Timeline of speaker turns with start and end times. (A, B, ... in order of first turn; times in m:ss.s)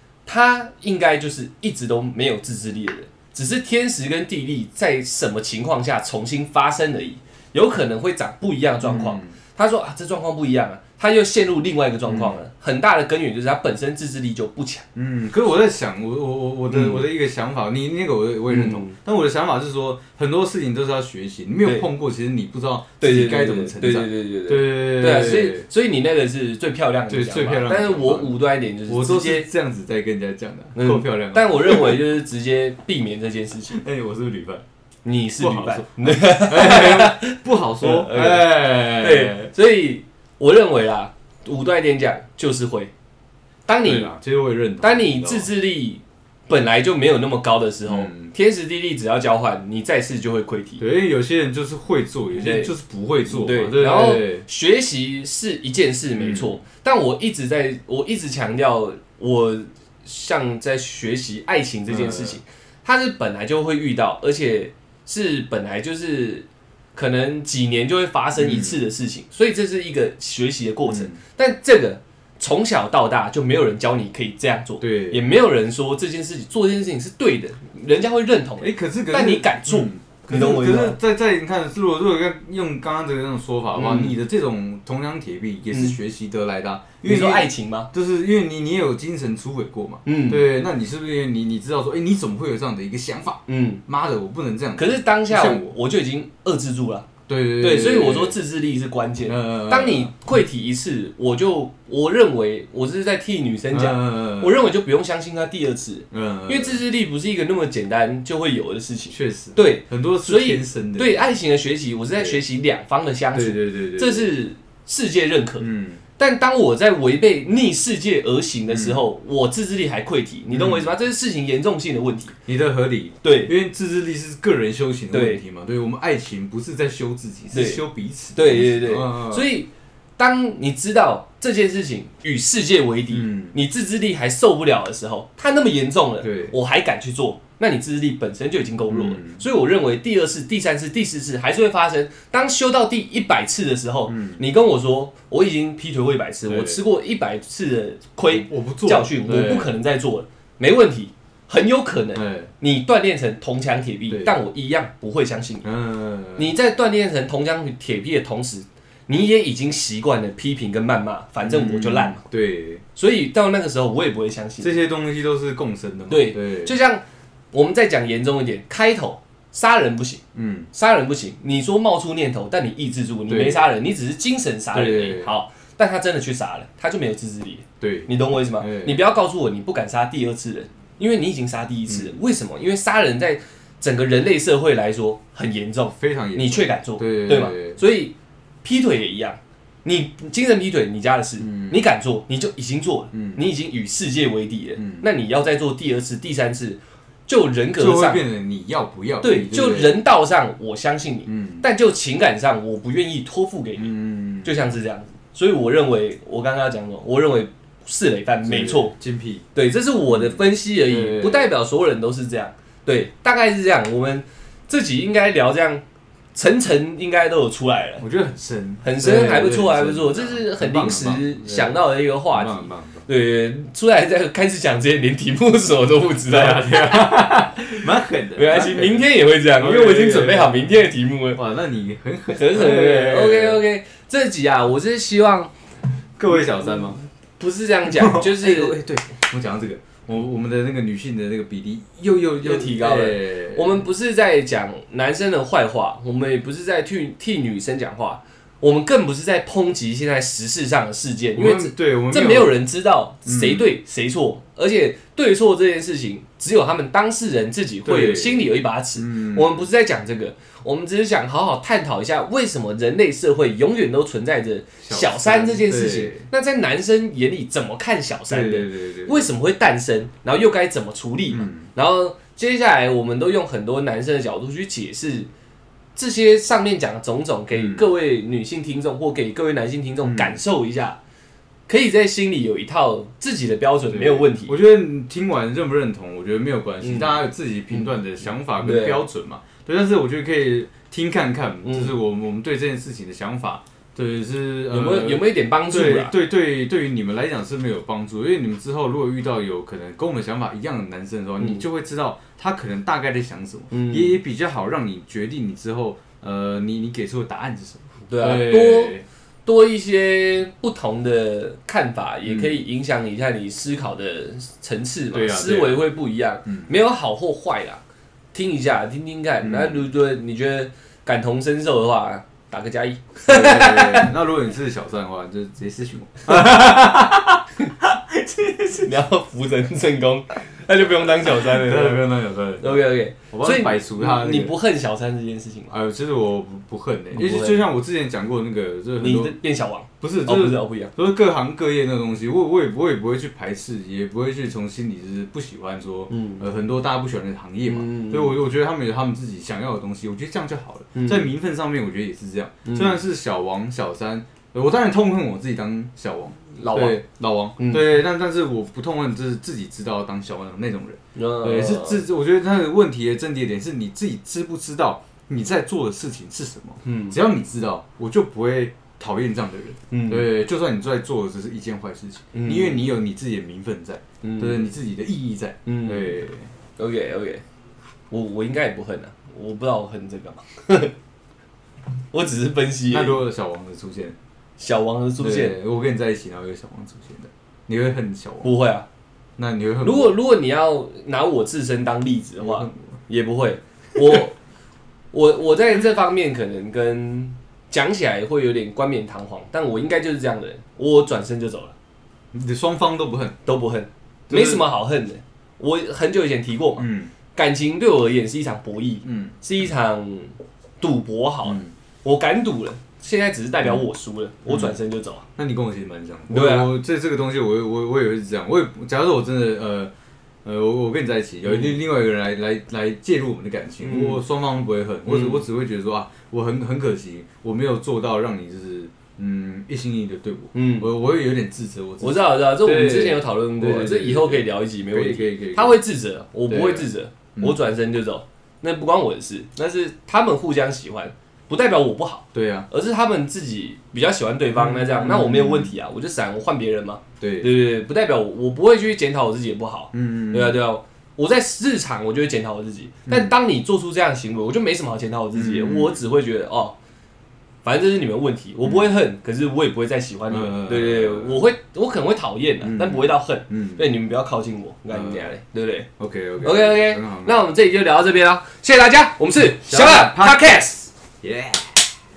0:00.3-0:14.8 A
0:08.8-0:09.4 B
0:12.1-0:12.4 B
0:15.0-0:25.7 B
0:16.7-0:17.0 A
0:18.5-0:19.0 A
0:23.0-0:29.5 A
0:27.1-0:32.0 B
0:30.8-0:33.8 A
0:33.7-0:34.6 B
0:35.0-0:42.9 A
0:35.4-0:39.5 B
0:43.7-0:44.1 A
0:43.8-0:45.5 B
0:44.8-0:50.8 A
0:47.9-0:48.3 B
0:50.8-0:54.4 B
0:52.3-0:52.7 A
0:53.3-1:21.0 A
0:56.2-0:56.6 B
1:01.9-1:02.4 B
1:08.4-1:08.8 B
1:10.9-1:11.2 B
1:14.8-1:15.2 B
1:18.6-1:35.8 B
1:23.8-1:24.2 A
1:27.0-1:27.9 A
1:30.0-1:30.4 A
1:33.5-1:33.8 A
1:34.8-2:02.4 A
1:37.3-1:38.4 B
1:39.3-1:40.1 B
1:43.7-1:44.6 B
1:46.1-1:46.8 B
1:49.1-1:51.3 B
1:52.2-1:52.4 B
1:53.3-1:54.3 B
1:55.6-1:56.0 B
1:58.7-1:59.1 B
2:00.5-2:00.9 B
2:02.5-2:09.5 B
2:03.2-2:03.5 A
2:05.1-2:05.4 A
2:07.5-2:07.8 A
2:08.4-2:35.7 A
2:13.1-2:13.6 B
2:16.2-2:16.6 B
2:18.9-2:19.4 B
2:24.1-2:24.4 B
2:26.5-2:26.8 B
2:28.3-2:29.8 B
2:32.2-2:32.5 B
2:34.1-2:34.4 B
2:35.6-2:36.5 B
2:36.4-2:42.2 A
2:41.4-2:42.8 B
2:43.0-2:44.7 A
2:44.6-2:46.8 B
2:46.1-3:18.2 A
2:50.3-2:50.7 B
2:53.3-2:53.6 B
2:54.7-2:55.3 B
2:57.8-2:59.0 B
3:01.9-3:02.2 B
3:06.0-3:07.8 B
3:11.4-3:11.8 B
3:13.1-3:13.5 B
3:14.8-3:15.1 B
3:17.8-3:20.0 B
3:19.2-3:23.9 A
3:21.3-3:21.6 B
3:23.8-3:24.5 B
3:24.4-3:28.9 A
3:28.4-3:29.4 B
3:29.5-3:35.8 A
3:30.1-3:31.5 B
3:36.4-3:38.0 A
3:38.0-3:43.1 B
3:38.8-3:47.8 A
3:46.3-3:49.1 B
3:48.4-3:51.4 A
3:49.6-3:50.8 B
3:51.3-3:53.6 B
3:52.3-3:55.5 A
3:56.2-3:57.0 B
3:56.3-3:58.8 A
3:57.8-4:03.9 B
4:02.4-4:35.3 A
4:11.4-4:12.6 B
4:13.3-4:13.7 B
4:17.8-4:18.5 B
4:19.0-4:19.7 B
4:24.8-4:26.3 B
4:28.3-4:29.3 B
4:31.3-4:31.7 B
4:36.0-4:41.0 A
4:37.5-4:37.9 B
4:40.0-4:40.4 B
4:41.7-4:44.6 A
4:43.9-5:09.0 B
4:46.8-4:47.9 A
4:48.6-4:49.0 A
4:51.6-4:51.9 A
4:54.7-4:56.1 A
5:03.7-5:04.2 A
5:08.1-5:17.8 A
5:12.2-5:12.6 B
5:15.1-5:15.9 B
5:16.4-5:16.8 B
5:18.3-5:24.1 A
5:19.4-5:19.8 B
5:23.2-5:29.0 B
5:28.8-5:32.0 A
5:31.2-5:34.5 B
5:32.6-5:35.7 A
5:35.7-5:39.3 B
5:37.1-5:37.6 A
5:39.0-5:40.9 A
5:40.0-6:16.5 B
5:46.1-5:46.5 A
5:47.7-5:48.4 A
5:51.0-5:51.3 A
5:52.6-5:53.0 A
5:56.6-5:57.0 A
5:57.6-5:58.0 A
6:01.2-6:02.0 A
6:06.8-6:07.2 A
6:09.9-6:10.3 A
6:12.3-6:12.8 A
6:14.2-6:14.7 A
6:15.7-6:16.2 A
6:16.8-6:17.4 A
6:18.1-6:20.9 A
6:22.1-6:23.2 A
6:22.9-6:24.2 B
6:24.6-6:25.6 A
6:25.2-6:28.5 B
6:28.4-6:28.9 A
6:29.4-6:30.2 B
6:29.8-6:34.4 A
6:32.4-6:32.8 B
6:35.1-6:41.8 A
6:42.3-6:43.4 B
6:43.5-6:55.3 A
6:44.3-6:44.6 B
6:46.8-6:47.1 B
6:49.0-6:49.4 B
6:51.5-6:51.7 B
6:54.4-6:54.8 B
6:55.4-6:59.9 B
6:56.3-6:56.7 A
7:00.4-7:15.8 B
7:01.5-7:01.8 A
7:03.8-7:04.2 A
7:05.1-7:05.5 A
7:10.5-7:10.9 A
7:12.0-7:36.8 A
7:16.5-7:17.6 B
7:22.3-7:22.7 B
7:24.5-7:25.7 B
7:27.2-7:27.5 B
7:29.9-7:30.6 B
7:33.1-7:33.4 B
7:35.3-7:36.0 B
7:37.6-7:45.9 A
7:38.6-7:39.0 B
7:40.3-7:41.4 B
7:42.6-7:43.9 B
7:44.9-7:45.3 B
7:46.0-7:47.4 B
7:46.4-7:50.9 A
7:49.4-7:50.5 B
7:51.2-7:51.8 B